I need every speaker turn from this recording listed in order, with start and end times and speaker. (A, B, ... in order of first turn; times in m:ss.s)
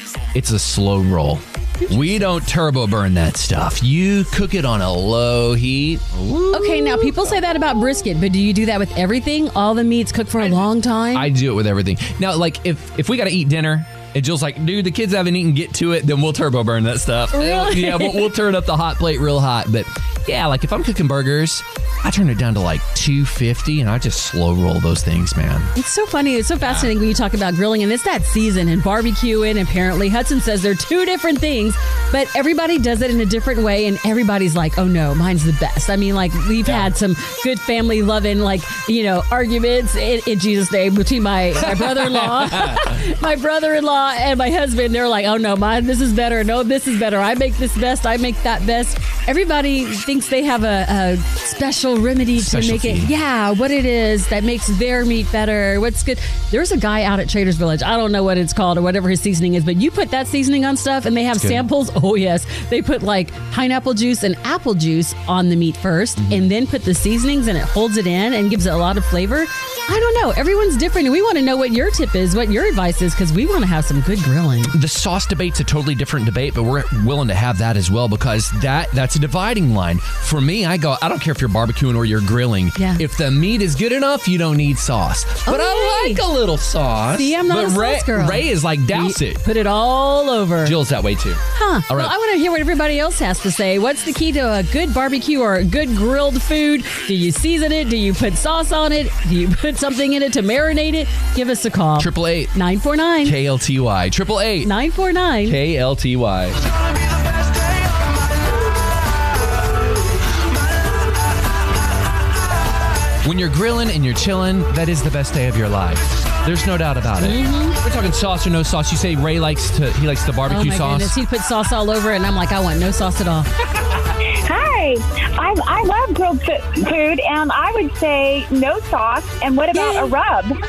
0:00.3-0:07.4 A
0:01.8-0:02.2 B
0:06.5-0:11.3 B
0:11.1-0:25.7 A
0:17.4-0:18.4 B
0:25.8-1:14.8 B
0:26.6-0:26.9 A
0:36.6-0:36.9 A
0:41.6-0:43.0 A
0:52.4-0:53.1 A
1:01.4-1:01.6 A
1:06.2-1:06.4 A
1:14.7-1:29.4 A
1:22.8-1:23.0 B
1:25.5-1:26.2 B
1:27.1-1:30.8 B
1:30.6-1:32.1 A
1:31.5-1:43.4 B
1:42.0-1:42.5 A
1:43.2-1:44.7 A
1:44.6-1:45.6 B
1:45.4-1:46.6 A
1:53.2-2:01.1 A
1:57.2-1:57.8 B
2:00.5-2:03.5 B
2:04.4-2:10.5 C
2:09.7-2:10.2 B